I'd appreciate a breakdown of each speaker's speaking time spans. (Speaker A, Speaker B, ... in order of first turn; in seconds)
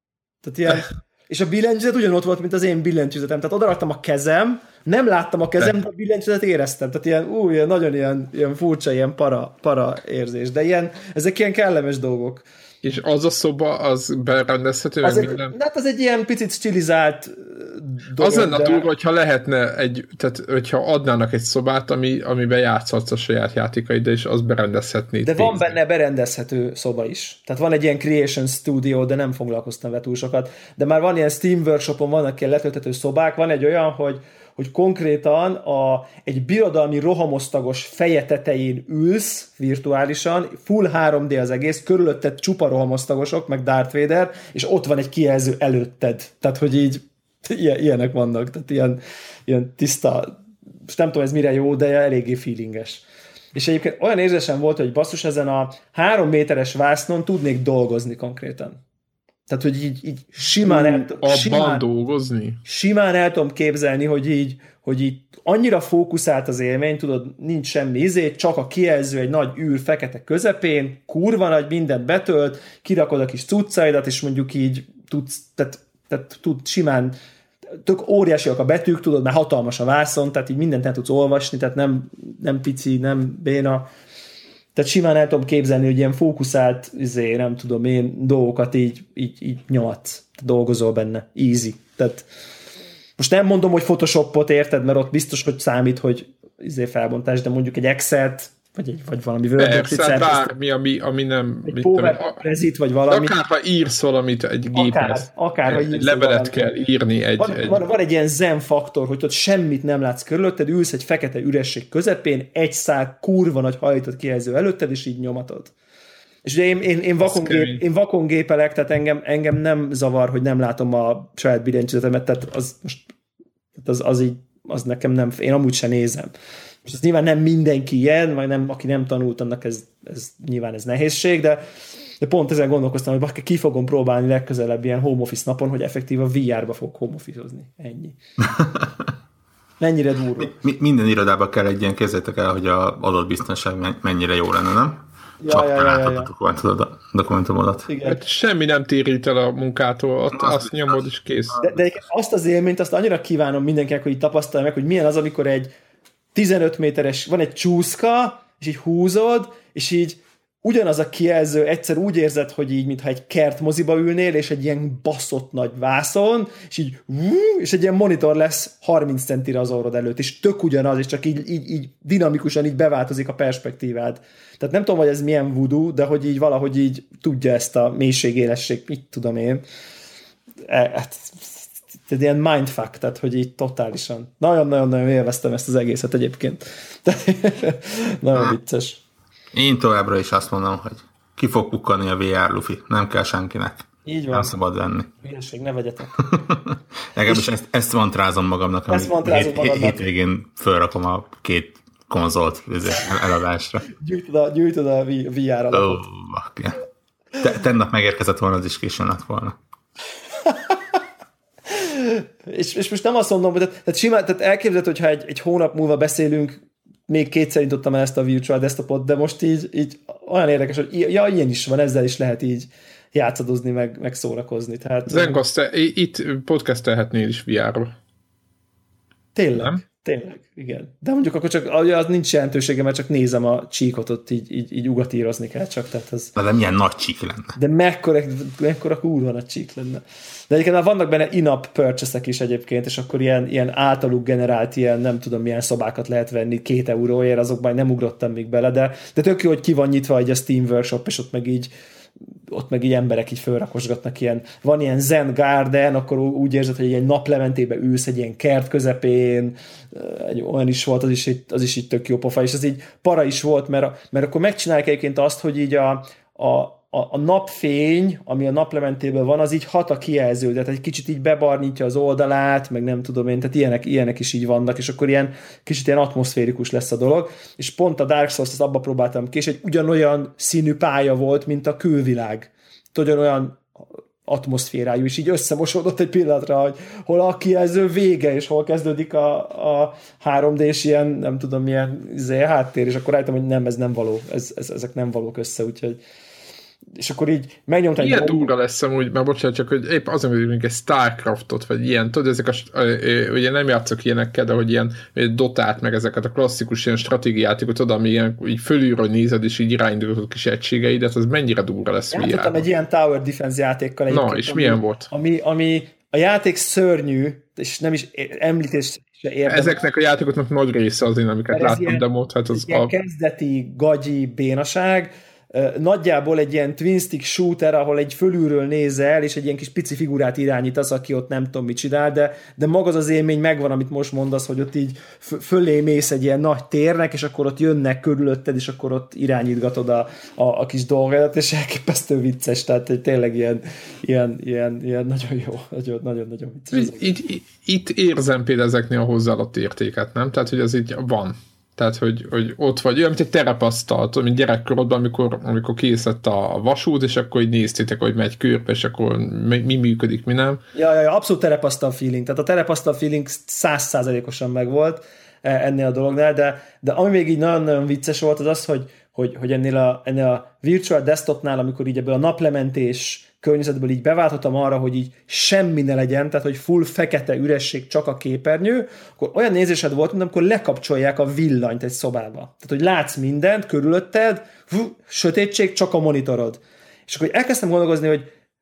Speaker A: 0.4-12.4, 15.0-18.8, 25.2-58.8, 59.5-61.8, 62.6-77.2, 77.8-83.9, 84.7-92.3, 93.2-100.5, 101.6-103.3, 104.7-106.6, 107.4-115.7, 116.4-123.0, 123.8-126.3, 126.8-131.6, 132.2-138.2, 139.8-140.5, 145.4-146.3, 147.9-148.2, 151.6-155.7, 156.3-179.6, 180.6-189.0, 194.0-194.5, 195.2-196.3, 198.9-200.0, 204.0-206.0, 210.4-210.8, 211.7-225.4, 229.3-236.3, 237.6-251.7, 252.5-296.0, 296.9-298.5, 312.1-319.8, 321.5-347.0, 360.7-388.3
Speaker B: 12.8-15.5, 18.2-25.8, 60.6-62.6, 99.6-102.4, 103.1-107.8, 117.2-117.8, 148.0-151.6, 225.1-227.9, 229.6-229.8, 298.0-312.5, 314.1-315.1, 319.5-322.9, 346.7-360.6
Speaker C: 140.4-147.9, 150.3-151.8, 189.5-195.1, 196.3-203.9, 205.7-206.8, 207.4-209.6, 236.3-237.6